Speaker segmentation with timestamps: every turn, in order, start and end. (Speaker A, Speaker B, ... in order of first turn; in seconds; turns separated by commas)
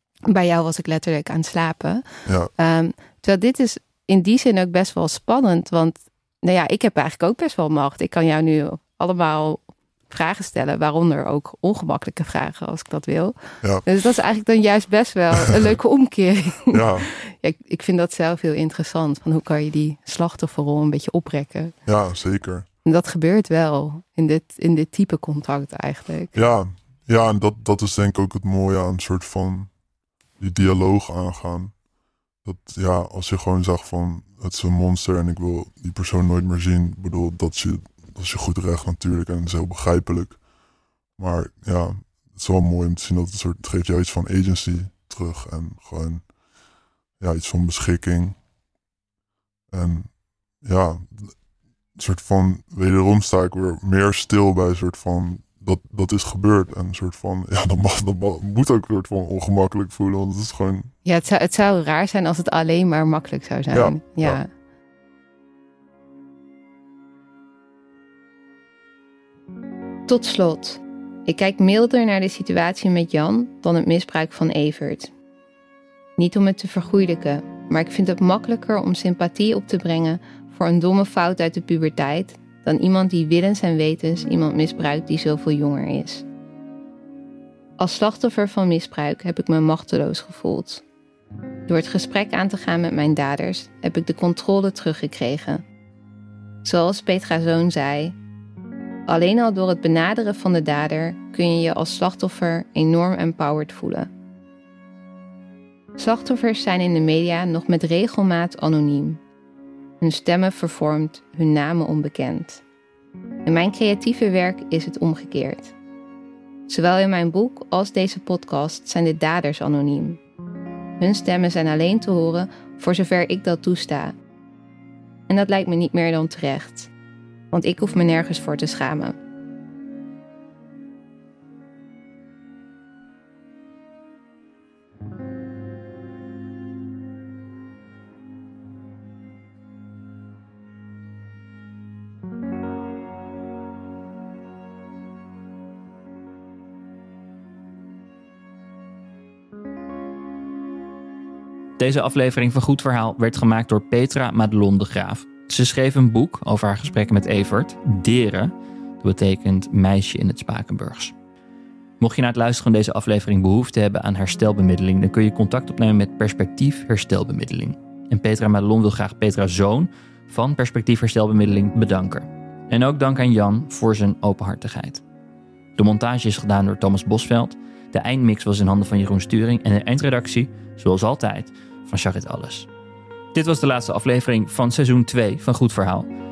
Speaker A: 0.3-21.8, Speaker B: 16.7-17.1, Speaker B: 21.9-22.7, Speaker A: 22.9-26.3, Speaker B: 26.3-29.7, Speaker B: 30.4-31.7, Speaker B: 32.4-40.4, Speaker B: 41.2-46.3, Speaker B: 47.2-48.4, Speaker B: 49.7-51.4, Speaker B: 52.0-60.9, Speaker A: 61.0-64.5, Speaker B: 63.7-64.4, Speaker A: 70.1-75.1, Speaker A: 76.2-86.2, Speaker A: 87.8-90.8, Speaker A: 91.7-95.6, Speaker A: 96.6-98.1, Speaker A: 99.1-104.1, Speaker A: 106.0-109.2, Speaker A: 110.0-112.6, Speaker A: 113.5-115.7, Speaker A: 116.7-120.2, Speaker A: 121.0-124.1, Speaker A: 125.3-126.9, Speaker A: 127.5-129.2, Speaker C: 151.8-161.2, Speaker C: 162.0-175.0, Speaker C: 175.8-182.7, Speaker C: 183.3-186.1